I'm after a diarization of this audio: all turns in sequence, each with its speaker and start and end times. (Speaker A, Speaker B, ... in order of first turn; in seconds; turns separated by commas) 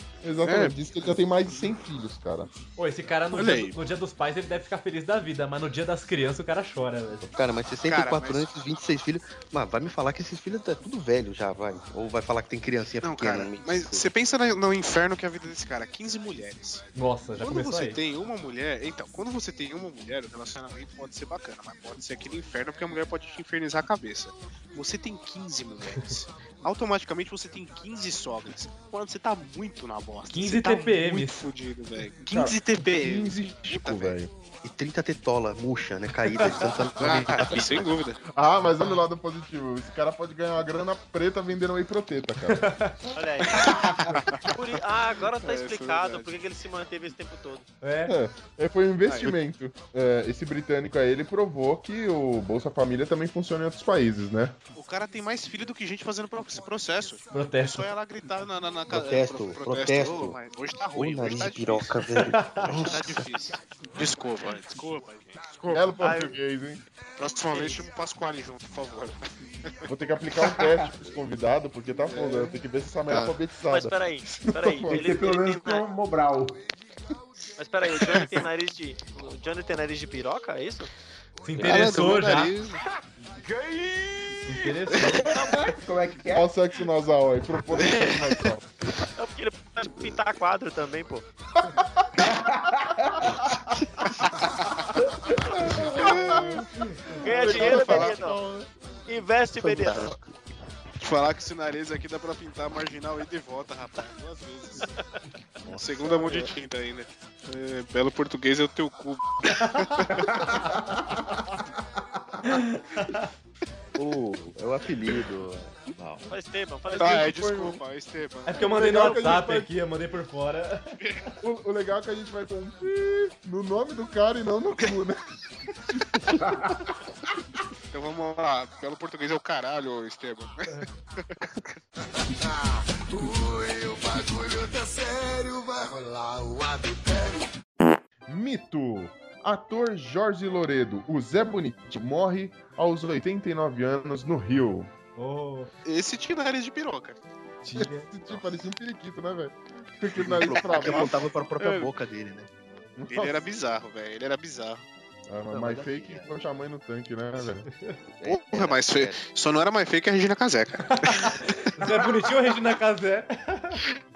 Speaker A: 0.2-2.5, Speaker B: 0.4-0.8, Speaker C: 2.8-7.3, Speaker B: 3.3-3.8, Speaker D: 7.2-14.1, Speaker B: 7.8-8.5, Speaker B: 13.0-16.8, Speaker C: 16.9-18.0, Speaker B: 17.4-34.1, Speaker C: 30.3-31.5, Speaker A: 32.3-34.3, Speaker D: 34.6-38.0, Speaker B: 36.5-38.2, Speaker A: 38.3-42.7, Speaker C: 42.5-43.0, Speaker E: 43.1-43.8, Speaker B: 43.4-44.6, Speaker E: 44.5-47.7, Speaker B: 45.3-46.3, Speaker C: 47.8-48.1, Speaker A: 48.1-54.5, Speaker B: 49.0-49.4, Speaker B: 54.7-66.0, Speaker C: 57.3-57.9, Speaker D: 58.9-60.4, Speaker D: 60.9-63.3, Speaker C: 62.1-62.7, Speaker A: 65.7-66.8, Speaker E: 66.0-66.4, Speaker B: 67.2-69.8, Speaker E: 67.5-67.8, Speaker A: 69.9-75.0, Speaker F: 70.4-70.8, Speaker B: 73.1-73.4, Speaker E: 73.7-75.8, Speaker F: 74.8-76.6, Speaker E: 77.6-80.9, Speaker B: 77.9-78.4, Speaker C: 81.4-82.5, Speaker B: 81.6-82.8, Speaker D: 81.6-82.0, Speaker C: 84.4-85.5, Speaker B: 84.9-85.2, Speaker F: 85.3-86.5, Speaker A: 86.3-88.7, Speaker B: 87.8-88.2, Speaker E: 89.2-91.2, Speaker A: 91.6-92.1, Speaker F: 92.2-93.3, Speaker D: 93.3-94.1, Speaker B: 94.2-94.9, Speaker F: 95.0-95.9, Speaker A: 95.6-98.7, Speaker B: 95.8-96.4, Speaker E: 96.0-96.3, Speaker E: 97.1-98.4, Speaker B: 97.3-98.2, Speaker E: 99.1-100.1, Speaker D: 99.6-100.4, Speaker B: 101.0-104.9, Speaker D: 105.7-106.3, Speaker B: 105.7-110.3, Speaker F: 110.1-111.4, Speaker C: 112.5-113.3, Speaker D: 114.0-116.3, Speaker E: 116.3-117.4, Speaker A: 116.9-117.8, Speaker B: 117.0-118.7, Speaker C: 118.5-121.3, Speaker A: 118.6-119.7, Speaker B: 121.0-121.3, Speaker A: 121.4-125.2, Speaker F: 126.4-126.8, Speaker B: 127.9-131.5, Speaker A: 138.3-144.9, Speaker C: 145.2-145.7, Speaker B: 145.8-147.2, Speaker C: 147.6-148.1, Speaker A: 147.7-151.1, Speaker D: 150.2-152.5, Speaker B: 150.5-151.9, Speaker A: 153.0-153.4, Speaker B: 153.1-154.8, Speaker A: 155.3-157.7, Speaker D: 155.5-156.3, Speaker D: 158.2-159.2, Speaker B: 158.2-161.8, Speaker C: 161.0-163.8